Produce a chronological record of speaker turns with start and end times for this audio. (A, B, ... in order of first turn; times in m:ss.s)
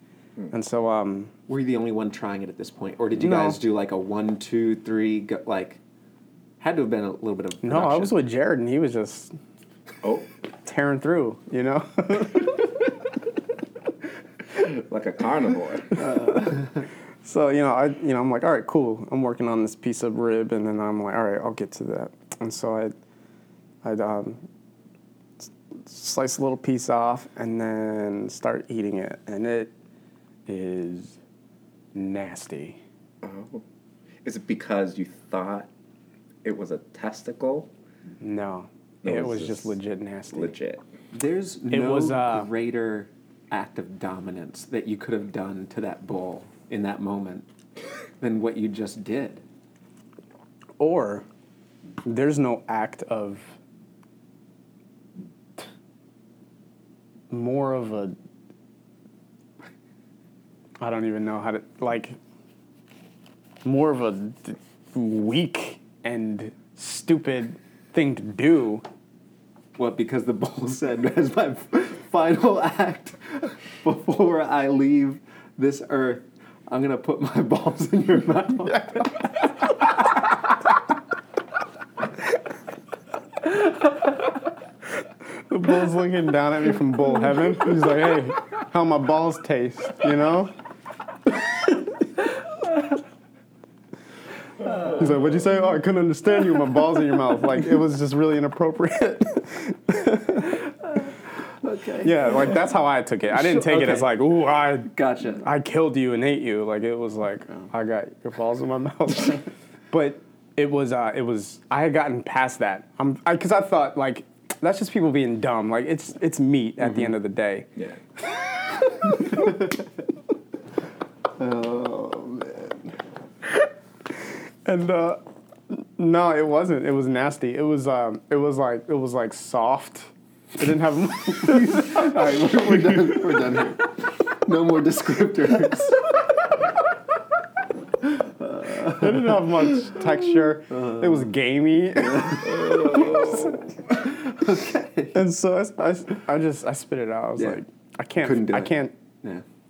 0:00.5-0:01.3 A
0:01.5-0:05.8 B
0:03.2-0:03.6 A
0:06.6-0:08.2 B
0:07.6-0:09.4 A
0:10.6-0:12.7 A
0:14.5-0:16.1 C
0:16.1-0:16.5 A
0:17.2-0:22.9 A
0:23.8-0:24.4 A
0:25.8-0:29.7 A
0:30.5-0:31.2 A
0:32.0-0:32.8 A
0:33.2-0:33.6 C
0:34.2-0:35.7 C
0:36.4-0:37.7 C
0:38.2-0:40.5 A
0:39.0-0:39.8 C
0:40.3-0:40.8 C
0:41.1-0:47.5 B
0:41.7-0:42.5 A
0:48.2-0:49.4 B
0:50.8-0:51.2 A
0:52.0-0:53.5 A
0:57.3-0:58.2 A
1:00.8-1:02.2 A
1:03.6-1:08.8 A
1:09.8-1:19.4 B
1:25.5-1:30.5 A
1:34.6-1:35.0 B
1:34.8-1:40.5 A
1:40.9-1:42.6 B
1:42.0-1:57.7 A
1:43.3-1:44.3 B
1:44.9-1:45.4 B
1:58.3-1:59.5 A
2:01.4-2:02.8 B
2:04.6-2:12.1 A
2:11.4-2:16.4 B
2:18.0-2:20.1 B
2:18.7-2:23.6 A
2:20.7-2:21.3 B
2:22.0-2:25.2 B
2:25.1-2:28.9 A
2:28.2-2:29.4 B